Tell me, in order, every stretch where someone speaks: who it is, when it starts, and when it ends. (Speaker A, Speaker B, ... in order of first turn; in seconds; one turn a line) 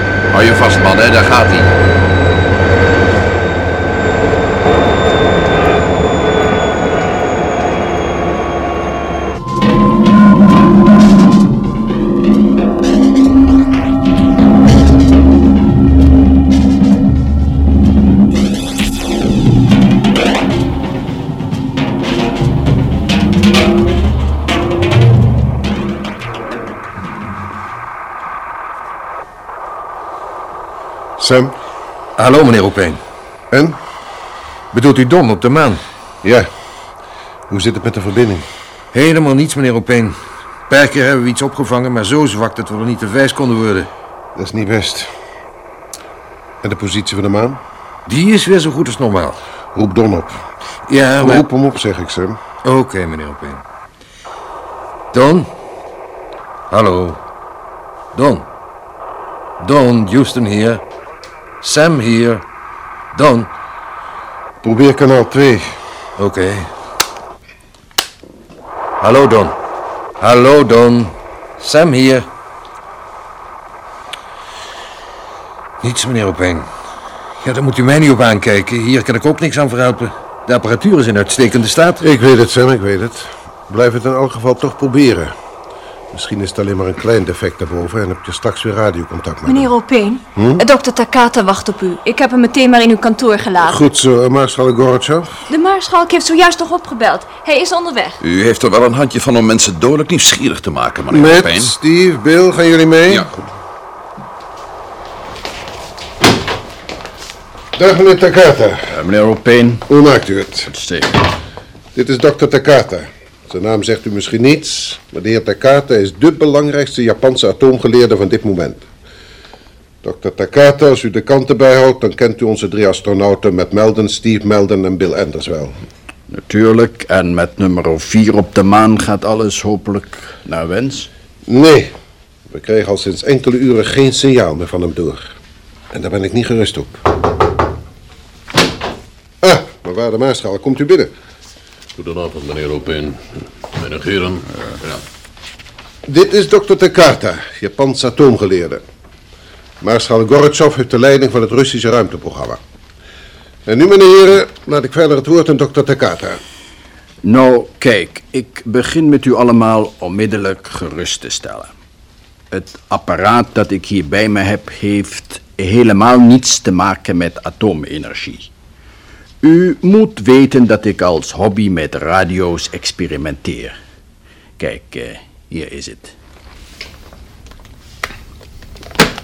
Speaker A: 0.3-1.7
Speaker B: 31.2-31.5
Speaker C: 32.2-33.0
Speaker B: 33.5-33.8
Speaker C: 34.7-35.8
Speaker B: 36.2-36.5
Speaker B: 37.5-38.5
Speaker C: 38.9-43.9
Speaker B: 44.4-45.1
Speaker B: 46.6-47.6
Speaker C: 48.1-49.4
Speaker B: 49.7-50.4
Speaker C: 50.9-51.5
Speaker B: 51.2-52.4
Speaker C: 52.6-53.6
Speaker C: 55.1-55.5
Speaker C: 56.7-57.2
Speaker C: 58.1-58.5
Speaker C: 59.6-60.8
Speaker C: 61.6-62.4
Speaker C: 63.1-63.5
Speaker B: 64.6-65.8
Speaker C: 66.2-66.7
Speaker C: 69.0-69.5
Speaker C: 70.2-72.3
Speaker C: 75.8-76.7
Speaker C: 77.4-82.0
Speaker B: 82.0-85.3
Speaker B: 86.1-89.7
Speaker D: 89.5-93.8
Speaker B: 90.3-90.6
Speaker B: 93.6-95.4
Speaker D: 95.5-98.2
Speaker A: 98.2-101.7
Speaker B: 101.1-103.3
Speaker B: 107.8-109.0
Speaker E: 108.9-109.9
Speaker B: 109.9-110.7
Speaker E: 110.7-111.2
Speaker B: 112.0-118.8
Speaker B: 120.0-125.7
Speaker E: 126.3-131.1
Speaker B: 131.5-131.9
Speaker B: 132.5-135.3
Speaker B: 135.9-137.1
Speaker B: 139.4-141.1
Speaker F: 142.0-144.5
Speaker B: 146.1-148.8
Speaker B: 149.8-152.6
Speaker B: 153.7-156.4
Speaker E: 157.2-161.7
Speaker E: 162.5-168.5
Speaker E: 169.4-173.8
Speaker E: 174.6-176.2